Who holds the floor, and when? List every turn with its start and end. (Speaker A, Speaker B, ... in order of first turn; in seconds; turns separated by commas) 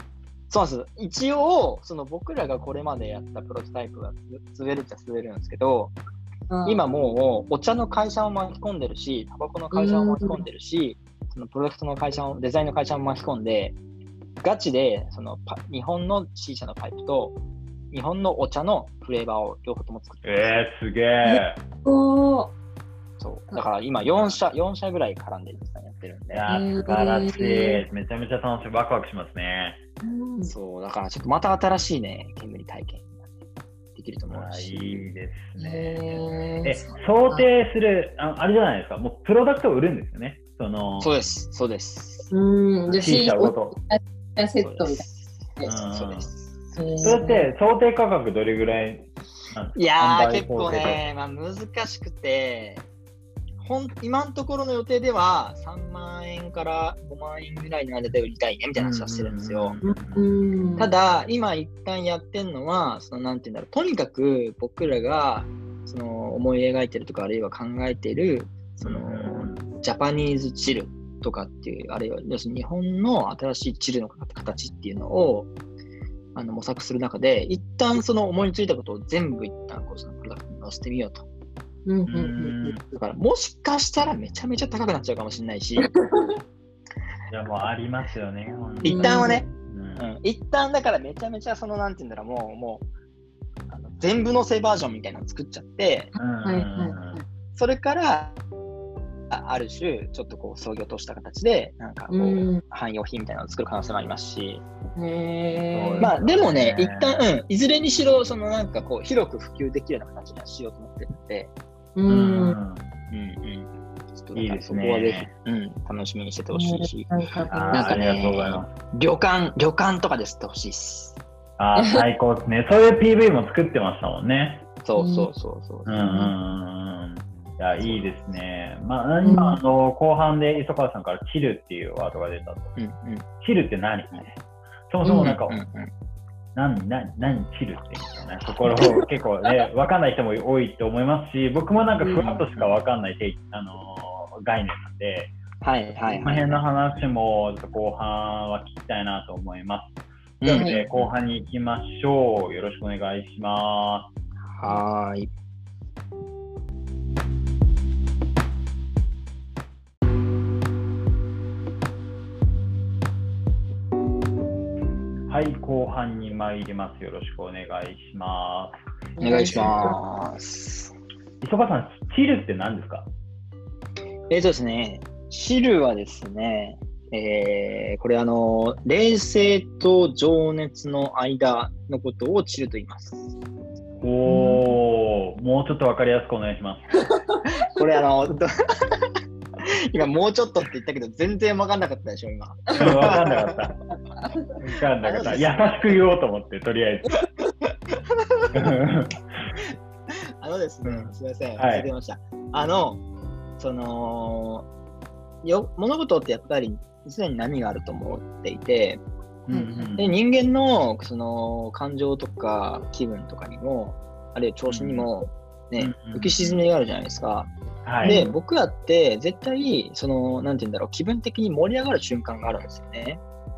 Speaker A: 0.5-6.0, Speaker B: 6.5-6.9, Speaker A: 6.6-13.8, Speaker B: 9.7-10.4, Speaker A: 14.4-17.4, Speaker A: 17.9-20.6, Speaker C: 20.2-21.6, Speaker B: 21.2-22.5, Speaker A: 23.2-26.4, Speaker C: 26.3-29.8, Speaker B: 26.5-27.8, Speaker B: 30.0-30.5, Speaker A: 30.4-33.3, Speaker A: 33.9-35.1, Speaker C: 34.3-41.1, Speaker B: 35.6-37.5, Speaker A: 41.0-42.3, Speaker B: 42.3-45.0, Speaker C: 42.9-43.8, Speaker A: 44.6-46.4, Speaker C: 45.6-46.3, Speaker B: 46.7-47.5, Speaker C: 47.0-51.0, Speaker A: 49.7-52.9, Speaker A: 53.6-59.8, Speaker C: 58.7-60.3, Speaker B: 59.8-60.9, Speaker A: 60.8-75.5, Speaker C: 68.8-69.7, Speaker A: 76.3-81.2, Speaker B: 81.8-82.8, Speaker C: 82.1-82.8, Speaker A: 82.9-85.9, Speaker B: 85.8-86.4, Speaker C: 87.3-90.0, Speaker A: 88.8-92.8, Speaker B: 88.8-89.4, Speaker A: 93.7-96.1, Speaker C: 96.2-97.2, Speaker B: 96.2-97.2, Speaker A: 97.5-98.4, Speaker A: 99.3-104.6, Speaker B: 102.1-102.6, Speaker B: 105.0-106.1, Speaker C: 105.7-107.2, Speaker A: 106.0-111.5, Speaker B: 112.0-112.6, Speaker C: 112.1-112.8, Speaker A: 113.1-117.1, Speaker C: 114.3-115.3, Speaker B: 116.5-118.0, Speaker C: 117.5-118.7, Speaker A: 117.7-121.2, Speaker C: 121.6-124.7, Speaker B: 121.7-122.0, Speaker A: 124.8-126.0, Speaker B: 125.0-125.3, Speaker C: 125.8-132.8, Speaker A: 127.8-128.1, Speaker B: 129.2-129.6, Speaker A: 132.8-133.3, Speaker C: 133.4-134.3, Speaker C: 134.9-135.6, Speaker B: 135.0-135.3, Speaker A: 135.2-135.9, Speaker C: 136.5-145.3, Speaker A: 142.1-142.7, Speaker A: 145.6-146.6, Speaker C: 146.1-149.9, Speaker A: 150.4-151.0, Speaker B: 150.4-150.8, Speaker C: 150.5-154.1, Speaker A: 154.5-155.3, Speaker C: 165.3-168.8, Speaker B: 169.2-169.9, Speaker A: 169.2-170.9, Speaker C: 169.5-169.8, Speaker C: 171.4-173.1, Speaker A: 174.3-183.3, Speaker C: 184.0-187.0, Speaker B: 184.2-184.6, Speaker B: 187.1-187.4, Speaker A: 187.4-189.1, Speaker A: 189.6-193.5, Speaker C: 192.8-193.8, Speaker A: 194.6-196.0, Speaker C: 194.7-197.1, Speaker A: 198.1-198.8, Speaker C: 198.5-199.4, Speaker A: 200.4-203.0, Speaker C: 200.8-201.9, Speaker A: 203.6-204.7, Speaker A: 205.4-209.0, Speaker C: 209.5-210.1, Speaker B: 209.5-210.0, Speaker A: 210.0-217.5, Speaker C: 214.7-215.1, Speaker C: 215.8-216.6, Speaker C: 217.8-218.2, Speaker B: 218.0-218.3, Speaker A: 218.0-223.2